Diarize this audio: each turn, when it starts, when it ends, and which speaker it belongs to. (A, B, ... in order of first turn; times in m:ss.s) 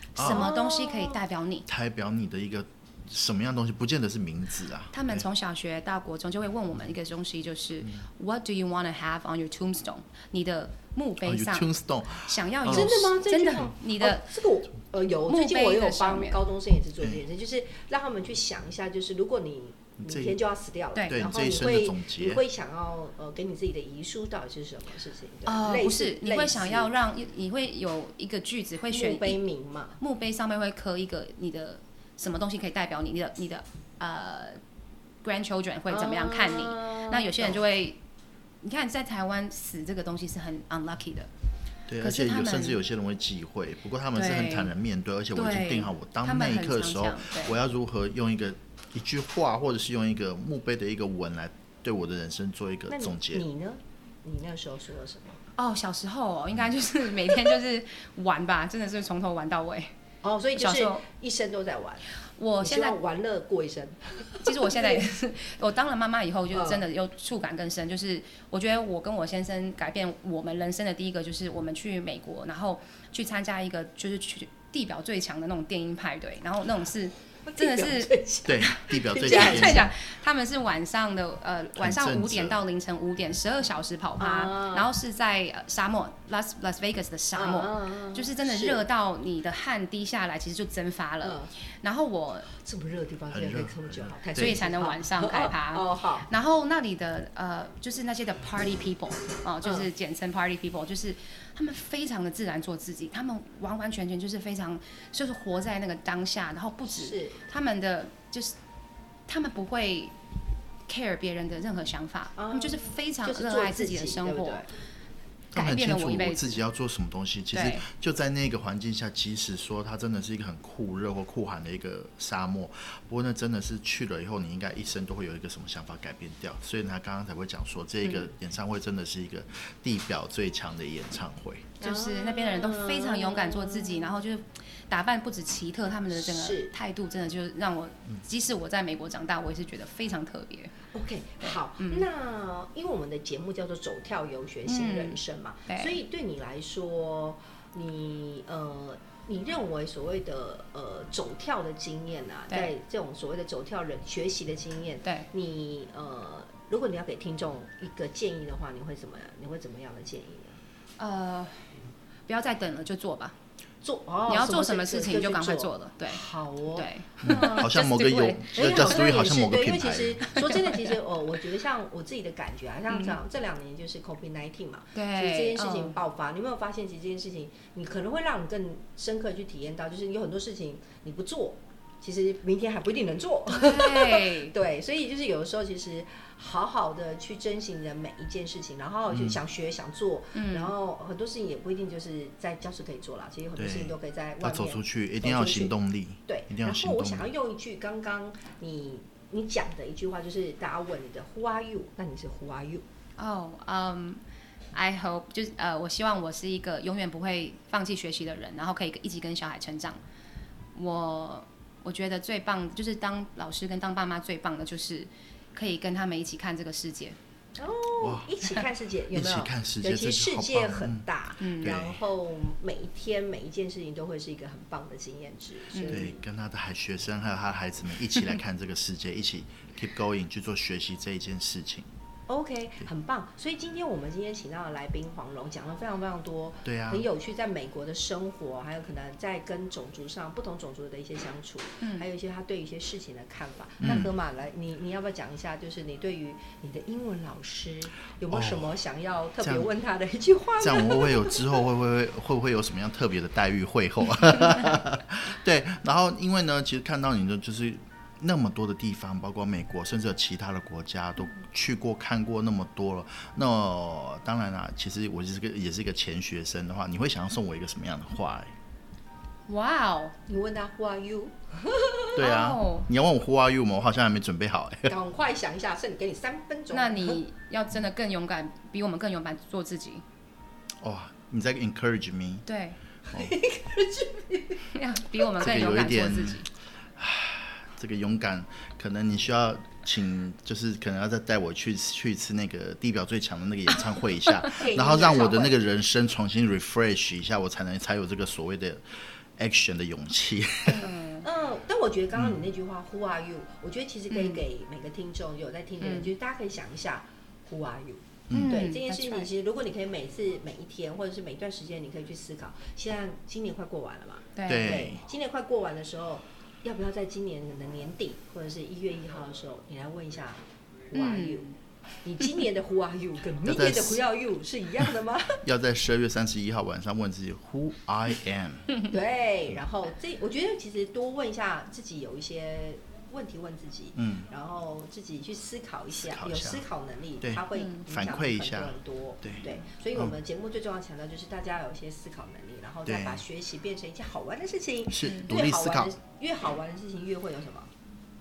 0:00.1-0:00.5 A
0:00.2-0:01.2 B
0:00.2-0:01.6 C
0:01.7-0:05.2 A
0:04.9-0:14.3 C
0:11.2-0:13.1 A
0:12.7-0:26.9 B
0:15.3-0:16.4 C
0:20.0-0:20.4 A
0:20.9-0:21.2 C
0:21.1-0:22.4 A
0:25.4-0:29.4 C
0:28.9-0:30.0 B
0:30.0-0:34.6 C
0:35.2-0:38.0 C
0:35.9-0:37.6 B
0:38.6-0:41.3 C
0:41.9-0:53.4 A
0:42.0-0:42.8 C
0:44.1-0:44.7 C
0:45.3-0:47.6 C
0:52.9-0:55.4 B
0:55.6-0:59.9 C
1:00.2-1:02.0 B
1:00.6-1:01.0 C
1:02.4-1:03.0 C
1:02.6-1:05.0 B
1:04.4-1:18.1 C
1:06.5-1:06.8 B
1:17.5-1:19.9 B
1:18.4-1:19.9 A
1:19.2-1:32.5 C
1:21.8-1:22.6 A
1:24.2-1:24.9 B
1:27.4-1:28.8 B
1:31.2-1:31.5 B
1:32.5-1:36.3 B
1:33.3-1:34.6 A
1:34.3-1:48.6 C
1:39.6-1:39.9 B
1:46.9-1:47.4 B
1:49.3-1:50.1 C
1:50.9-1:54.6 C
1:52.4-1:54.7 B
1:55.5-1:56.6 C
1:55.5-2:11.7 A
1:57.5-1:57.8 C
2:08.0-2:08.3 C
2:11.8-2:20.7 C
2:11.8-2:14.2 B
2:16.1-2:16.7 B
2:20.9-2:40.6 B
2:21.4-2:22.0 C
2:24.7-2:26.0 C
2:41.0-2:41.6 C
2:42.3-2:43.3 C
2:43.8-2:47.7 B
2:44.3-2:46.2 C
2:46.7-2:48.5 C
2:47.2-2:50.3 A
2:48.5-3:15.7 B
2:50.3-2:50.8 C
2:52.9-2:53.2 C
2:54.9-2:56.0 C
3:03.5-3:04.5 C
3:09.1-3:09.4 A
3:10.3-3:10.7 C
3:13.6-3:17.3 A
3:16.3-3:22.8 B
3:23.2-3:24.2 C
3:24.7-3:30.0 C
3:30.7-3:37.2 C
3:37.6-3:46.2 B
3:38.0-3:38.3 A
3:39.1-3:41.1 A
3:41.4-3:41.7 C
3:41.6-3:42.0 A
3:45.7-3:46.1 C
3:45.9-3:51.9 A
3:52.3-4:11.6 B
3:56.6-3:57.1 A
4:01.8-4:02.0 C
4:03.8-4:04.1 A
4:03.8-4:04.1 C
4:08.3-4:08.7 A
4:09.4-4:09.7 A
4:10.6-4:28.5 A
4:29.5-4:30.1 C
4:30.3-4:32.2 B
4:32.1-4:34.9 A
4:32.2-4:32.9 C
4:34.9-4:37.2 B
4:36.7-4:40.0 C
4:40.8-4:42.4 A
4:42.4-4:42.8 C
4:43.1-4:44.6 B
4:44.7-4:46.5 C
4:45.4-4:46.4 A
4:47.0-5:00.9 A
4:54.5-4:55.6 B
5:00.6-5:01.2 C
5:01.2-5:20.4 B
5:02.1-5:02.4 A
5:04.1-5:04.4 C
5:05.8-5:06.1 C
5:08.3-5:08.6 A
5:08.3-5:09.3 C
5:14.4-5:14.9 C
5:14.5-5:15.0 A
5:20.9-5:25.4 B
5:20.9-5:21.5 C
5:23.4-5:24.0 A
5:25.4-5:28.7 A
5:28.9-5:47.7 B
5:34.0-5:34.2 A
5:36.0-5:36.6 A
5:37.2-5:40.1 A
5:42.8-5:43.2 A
5:44.9-5:45.9 A
5:45.0-5:45.3 C